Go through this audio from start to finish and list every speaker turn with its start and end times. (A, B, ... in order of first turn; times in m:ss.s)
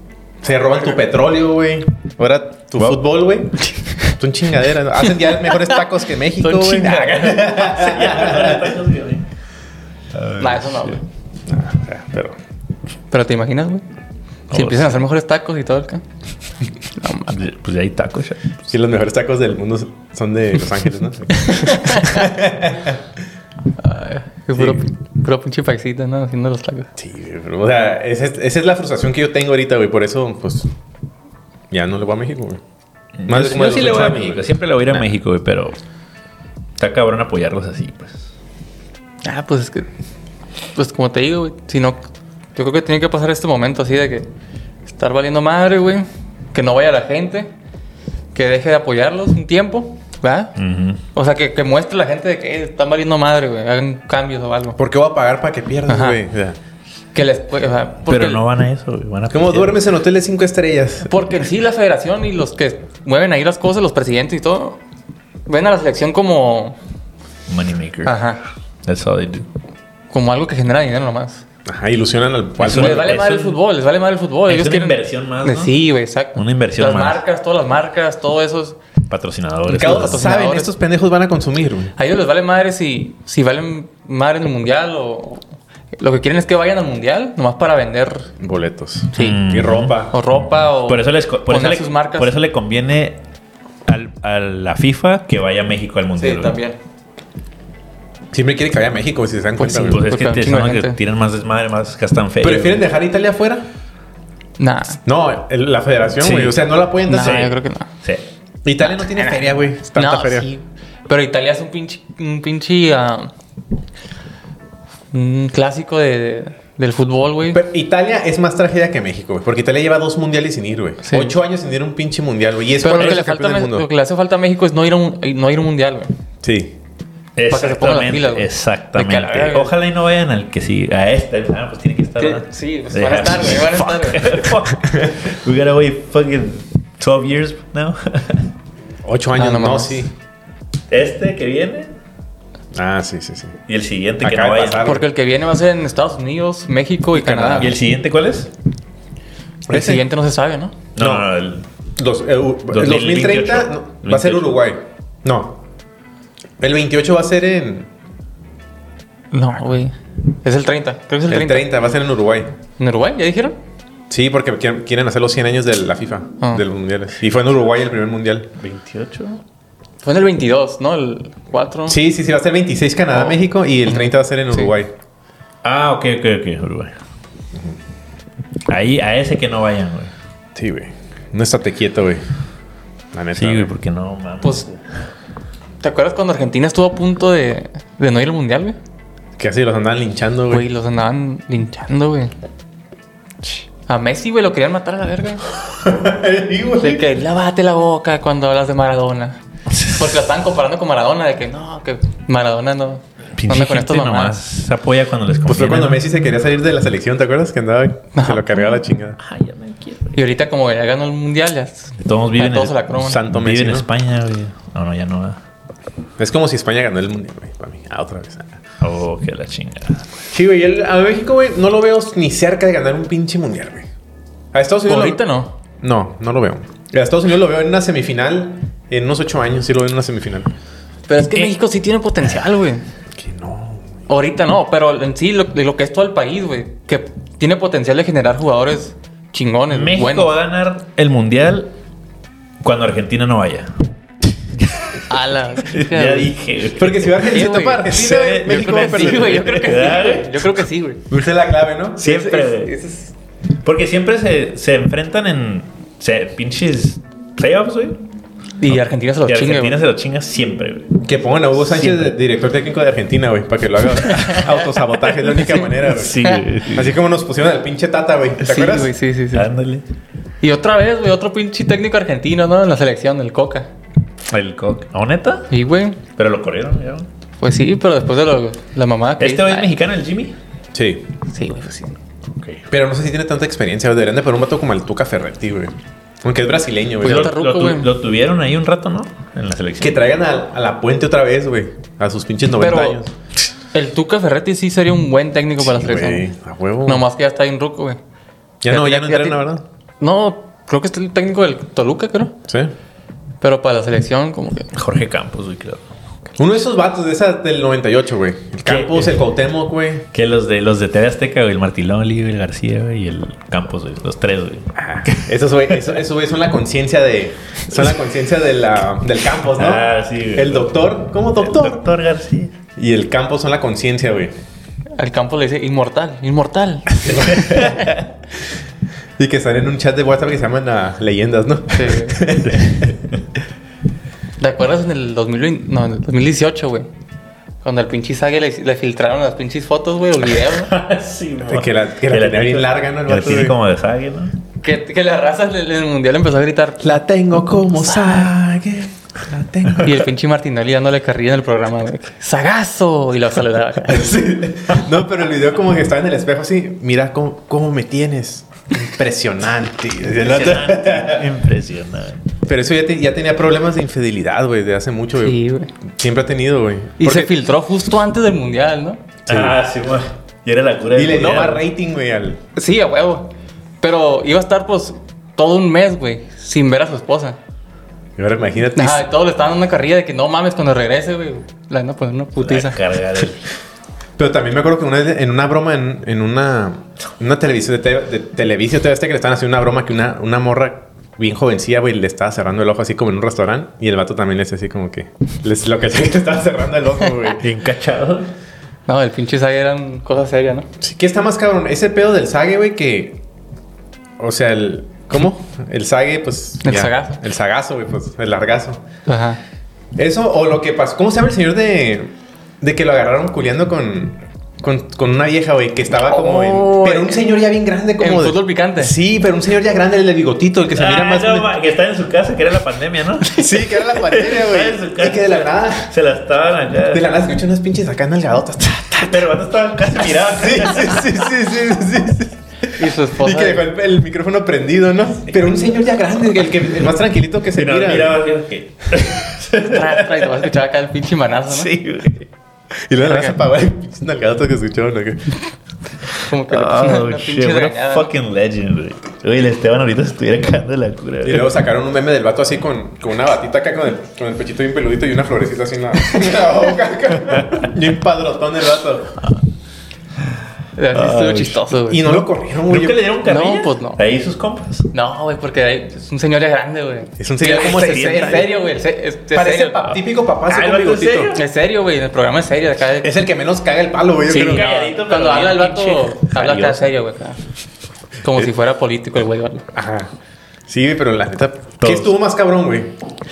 0:00.4-0:08.8 A
0:03.9-0:04.1 B
0:05.3-0:05.8 B
0:06.4-0:07.6 B
0:07.4-0:09.3 C
0:10.1-0:11.0 C
0:10.4-0:11.0 B
0:11.5-0:12.4 A
0:13.1-0:13.8 B
0:14.5-0:15.0 C
0:14.5-0:16.0 B
0:17.0-0:17.4 B
0:17.3-0:18.6 C
0:18.7-0:23.0 A
0:21.4-0:22.3 B
0:23.8-0:26.9 B
0:24.6-0:24.8 A
0:27.0-0:30.7 A
0:31.7-0:32.6 A
0:33.2-0:35.8 C
0:33.3-0:35.0 A
0:36.8-0:38.3 C
0:39.2-0:39.9 B
0:40.8-0:42.0 B
0:42.6-0:44.3 B
0:44.9-0:47.5 B
0:48.3-0:50.5 B
0:50.6-0:51.0 C
0:51.1-0:54.8 B
0:54.8-0:56.6 A
0:55.9-0:56.2 B
0:57.1-0:58.4 B
0:58.1-0:59.8 C
0:59.3-1:01.2 A
1:01.1-1:04.8 B
1:05.5-1:06.8 B
1:07.5-1:08.2 C
1:08.0-1:08.4 B
1:08.8-1:09.5 C
1:10.1-1:11.4 B
1:11.7-1:13.1 A
1:12.6-1:13.6 C
1:12.6-1:18.8 B
1:14.5-1:15.8 C
1:16.4-1:17.2 C
1:19.1-1:20.2 C
1:19.7-1:21.9 A
1:19.7-1:20.7 B
1:22.0-1:25.4 B
1:26.0-1:28.3 B
1:28.4-1:30.2 A
1:29.2-1:29.4 B
1:29.2-1:30.1 C
1:30.1-1:32.4 B
1:30.8-1:33.2 C
1:33.9-1:36.6 C
1:36.2-1:36.8 B
1:38.3-1:40.0 A
1:39.6-1:41.0 B
1:39.6-1:42.9 C
1:42.4-1:43.6 A
1:44.6-1:45.0 B
1:45.1-1:47.5 A
1:46.2-1:48.2 C
1:47.1-1:47.9 B
1:48.6-1:50.5 A
1:48.8-1:53.3 B
1:55.1-1:57.6 B
1:57.5-2:03.9 A
2:01.0-2:01.4 B
2:02.8-2:06.1 B
2:06.4-2:06.8 A
2:07.4-2:18.5 C
2:07.5-2:09.7 B
2:12.2-2:14.5 B
2:14.8-2:15.1 A
2:19.0-2:20.1 A
2:19.4-2:20.1 B
2:20.9-2:21.9 C
2:22.7-2:23.6 A
2:23.7-2:25.0 C
2:24.2-2:25.1 A
2:24.8-2:27.8 B
2:27.1-2:27.8 A
2:27.6-2:28.5 C
2:29.7-2:30.0 A
2:29.7-2:30.8 B
2:31.0-2:31.6 C
2:31.0-2:31.3 A
2:32.0-2:35.6 A
2:32.7-2:34.6 C
2:36.6-2:37.9 A
2:39.3-2:41.7 B
2:41.3-2:42.5 A
2:42.8-2:43.6 B
2:44.1-2:48.5 A
2:48.6-2:49.4 C
2:50.0-2:52.0 B
2:51.9-2:54.9 A
2:53.1-2:54.7 B
2:55.6-2:56.9 C
2:58.7-3:00.1 C
3:00.6-3:02.2 A
3:03.1-3:03.7 A
3:03.4-3:04.8 C
3:05.8-3:08.8 B
3:09.4-3:10.6 A
3:10.5-3:12.3 B
3:13.9-3:15.4 B
3:15.8-3:17.0 A
3:16.8-3:24.4 B
3:19.7-3:20.2 C
3:23.4-3:26.0 C
3:25.5-3:29.2 A
3:28.1-3:28.8 B
3:29.2-3:30.2 C
3:30.1-3:33.2 B
3:32.0-3:35.4 C
3:33.0-3:33.9 A
3:36.2-3:38.6 A
3:38.8-3:40.1 C
3:40.3-3:43.9 A
3:44.5-3:45.2 A
3:44.9-3:45.5 B
3:45.8-3:50.5 A
3:51.1-3:52.8 B
3:53.2-3:53.8 A
3:54.1-4:00.3 B
3:59.7-4:01.7 C
4:02.6-4:03.8 C
4:04.5-4:05.1 C
4:05.1-4:06.3 B
4:05.6-4:10.6 C
4:06.8-4:09.5 A
4:07.2-4:11.1 B
4:11.1-4:12.2 A
4:12.0-4:12.7 C
4:12.0-4:13.1 B
4:13.6-4:18.0 C
4:18.6-4:19.8 B
4:18.7-4:21.0 C
4:21.0-4:28.9 A
4:21.6-4:22.1 C
4:24.0-4:24.4 B
4:25.2-4:26.4 B
4:25.4-4:27.0 C
4:28.4-4:29.5 B
4:29.3-4:29.9 C
4:30.4-4:33.7 B
4:34.3-4:35.5 C
4:35.5-4:36.0 B
4:36.2-4:37.1 C
4:37.4-4:39.7 B
4:39.2-4:40.4 C
4:40.7-4:41.1 A
4:41.3-4:42.0 B
4:42.4-4:42.6 C
4:42.7-4:47.4 A
4:47.0-4:47.9 B
4:47.0-4:50.0 C
4:49.8-4:53.1 A
4:52.6-4:53.0 B
4:53.7-4:56.3 B
4:55.6-4:57.0 A
4:56.8-4:58.0 B
4:58.6-4:59.6 A
4:58.7-4:59.4 B
5:00.0-5:02.4 B
5:03.4-5:04.7 B
5:04.7-5:05.9 C
5:06.4-5:10.1 A
5:08.7-5:09.2 C
5:10.1-5:15.3 C
5:14.8-5:21.9 A
5:19.6-5:22.5 C
5:22.8-5:24.3 A
5:25.0-5:27.7 B
5:27.0-5:27.9 A
5:27.4-5:28.0 C
5:29.2-5:33.0 A
5:31.7-5:32.2 B
5:32.4-5:33.2 C
5:34.4-5:36.9 B
5:37.6-5:40.7 B
5:40.5-5:44.4 C
5:41.4-5:43.6 A
5:44.6-5:47.0 B
5:46.8-5:50.0 A
5:47.7-5:48.3 B
5:49.8-5:54.1 B
5:53.8-6:01.3 A
6:00.1-6:02.3 C
6:02.5-6:05.4 A
6:05.2-6:05.7 B
6:05.9-6:07.3 A
6:07.0-6:09.0 B
6:09.3-6:11.6 C
6:09.3-6:09.6 A
6:11.0-6:12.4 A
6:11.2-6:11.6 B
6:12.6-6:17.4 B
6:18.2-6:19.1 A
6:18.8-6:22.8 B
6:22.4-6:23.4 C
6:24.2-6:37.4 A
6:37.4-6:38.3 C
6:38.9-6:40.7 B
6:40.8-6:43.2 A
6:44.2-6:48.8 A
6:46.6-6:47.2 B
6:49.1-6:49.4 B
6:50.0-7:01.5 A
6:56.0-6:57.3 B
6:58.0-6:59.0 B
7:00.8-7:07.1 C
7:03.3-7:05.9 A
7:06.9-7:09.3 A
7:09.0-7:11.1 C
7:10.3-7:18.2 A
7:12.7-7:13.7 B
7:17.6-7:20.4 C
7:19.6-7:21.7 B
7:21.5-7:22.3 C
7:22.9-7:25.3 A
7:23.0-7:23.4 B
7:26.2-7:28.1 B
7:26.4-7:31.6 C
7:31.2-7:39.2 A
7:40.8-7:42.2 B
7:40.9-7:41.6 C
7:41.9-7:43.0 A
7:42.7-7:44.9 C
7:43.2-7:44.0 B
7:44.9-7:50.0 B
7:47.2-7:48.5 A
7:47.6-7:48.5 C
7:49.3-7:51.4 A
7:50.5-7:51.4 C
7:51.3-7:53.2 B
7:53.0-7:54.7 A
7:54.3-7:57.4 B
7:54.3-7:56.9 C
7:58.2-7:59.7 B
7:59.7-8:00.1 A
8:00.7-8:03.0 A
8:01.8-8:02.1 C